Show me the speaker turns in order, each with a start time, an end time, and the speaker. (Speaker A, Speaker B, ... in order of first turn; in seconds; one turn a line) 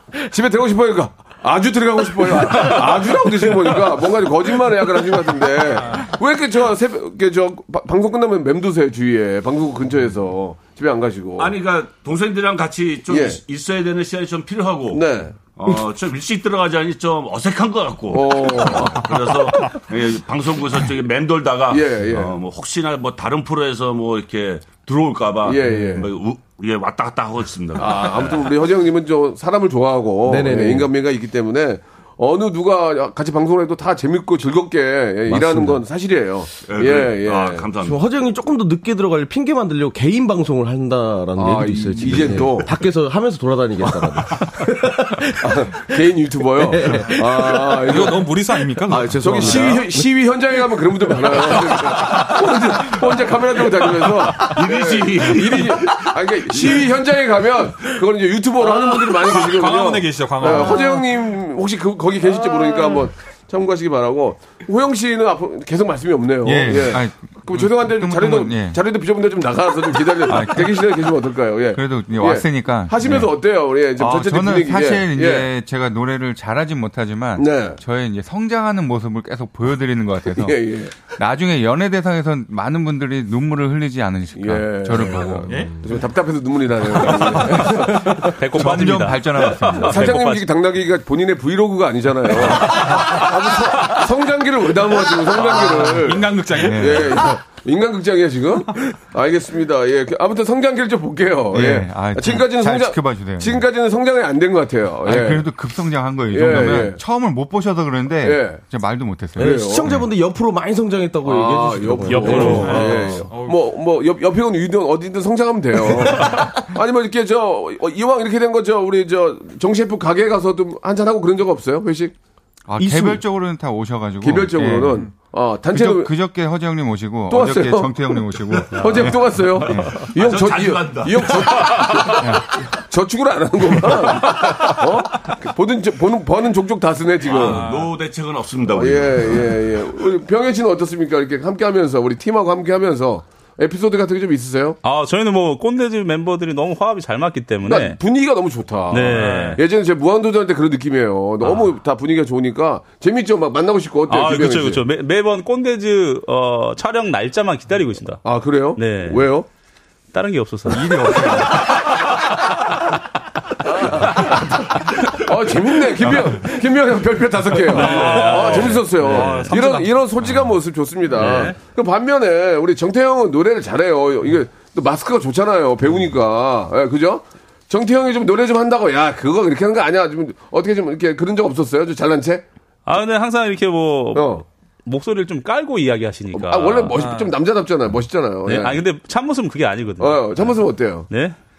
Speaker A: 0.2-11.5
Speaker B: 11.4-28.5
Speaker A: 13.1-13.4
Speaker A: 14.9-15.3
Speaker A: 18.1-19.1
Speaker A: 21.7-22.3
Speaker A: 25.4-26.1
Speaker C: 25.6-25.9
Speaker A: 27.8-37.7
Speaker C: 30.2-30.9
Speaker C: 35.3-35.8
Speaker B: 36.6-38.0
Speaker C: 37.8-45.8
Speaker A: 41.4-42.8
Speaker A: 45.4-48.3
Speaker C: 46.5-47.8
Speaker D: 47.7-49.8
Speaker A: 48.9-75.5
Speaker C: 48.9-50.1
Speaker C: 50.9-52.1
Speaker B: 54.4-56.9
Speaker D: 59.1-61.0
Speaker E: 66.4-68.8
Speaker E: 70.2-70.9
Speaker E: 71.7-73.3
Speaker E: 74.0-85.7
Speaker A: 77.3-77.8
Speaker A: 80.3-81.0
Speaker A: 84.3-88.4
Speaker D: 85.5-85.8
Speaker E: 87.0-87.8
Speaker F: 88.3-90.5
Speaker E: 88.4-90.2
Speaker A: 89.8-105.5
Speaker D: 95.4-97.2
Speaker E: 96.6-97.2
Speaker E: 101.5-103.6
Speaker E: 105.0-110.0
Speaker A: 106.3-107.0
Speaker A: 108.2-108.6
Speaker A: 109.3-109.9
Speaker C: 109.4-113.2
Speaker A: 111.2-122.1
Speaker F: 112.1-112.9
Speaker D: 112.3-113.6
Speaker E: 122.7-125.1
Speaker A: 124.2-126.1
Speaker E: 125.7-129.9
Speaker A: 127.3-137.7
Speaker B: 129.9-132.0
Speaker B: 137.2-139.7
Speaker D: 137.3-137.9
Speaker A: 138.7-144.8
Speaker F: 144.8-148.0
Speaker A: 147.6-154.8
Speaker F: 148.9-149.6
Speaker D: 149.1-149.6
Speaker F: 154.1-158.2
Speaker A: 158.2-159.5
Speaker F: 158.8-159.3
Speaker F: 160.1-162.5
Speaker E: 161.0-161.4
Speaker A: 163.7-182.4
Speaker F: 163.8-164.5
Speaker F: 167.7-169.4
Speaker D: 167.7-169.9
Speaker F: 171.2-171.6
Speaker F: 182.8-187.0
Speaker A: 184.1-184.4
Speaker A: 186.3-188.8
Speaker D: 187.0-187.3
Speaker F: 188.4-191.4
Speaker A: 190.0-191.1